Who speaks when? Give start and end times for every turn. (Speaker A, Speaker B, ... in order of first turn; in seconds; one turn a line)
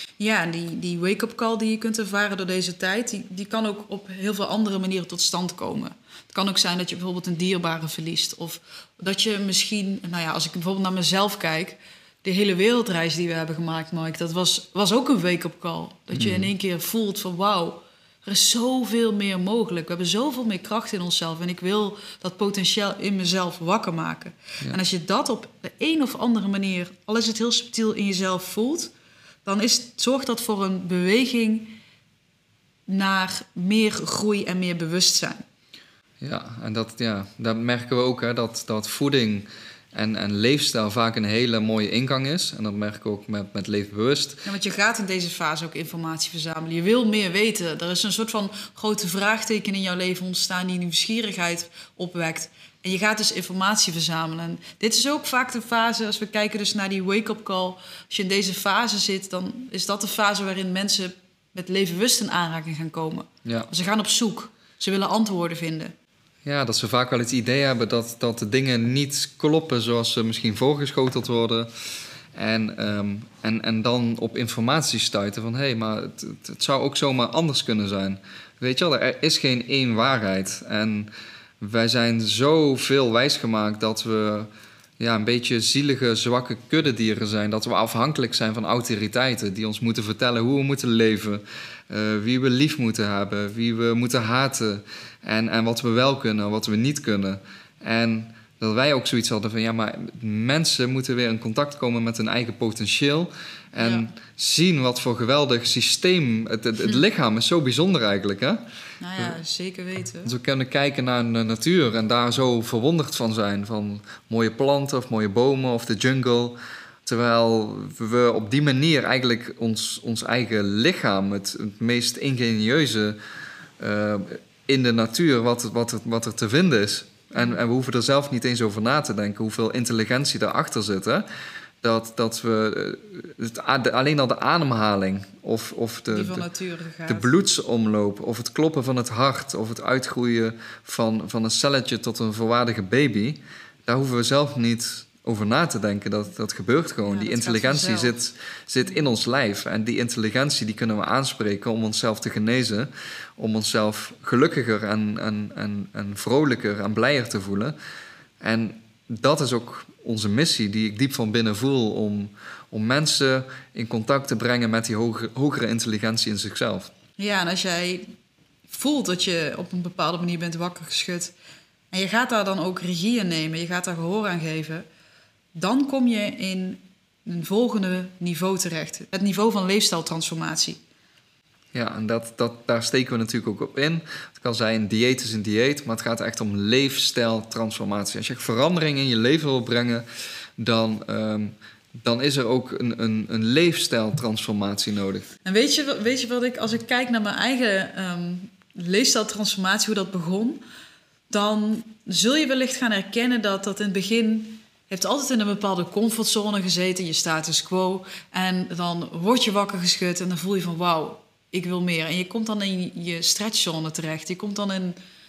Speaker A: 0.2-28.9
Speaker B: 16.1-16.5
Speaker A: 29.4-31.8
Speaker A: 32.9-35.4
Speaker B: 36.2-44.4
Speaker A: 44.4-65.9
Speaker B: 63.5-63.7
Speaker B: 66.5-71.7
Speaker B: 72.3-81.1
Speaker B: 81.6-108.6
Speaker A: 103.8-104.1
Speaker A: 109.0-110.3
Speaker B: 110.2-123.2
Speaker B: 123.8-131.2
Speaker B: 131.8-136.5
Speaker A: 136.1-137.3
Speaker B: 137.1-157.8
Speaker A: 147.1-148.2
Speaker B: 158.4-166.9
Speaker A: 167.2-168.1
Speaker A: 168.7-171.3
Speaker A: 171.9-174.9
Speaker A: 175.6-180.8
Speaker B: 181.7-190.0
Speaker B: 190.6-195.3
Speaker A: 195.4-200.6
Speaker A: 201.3-215.0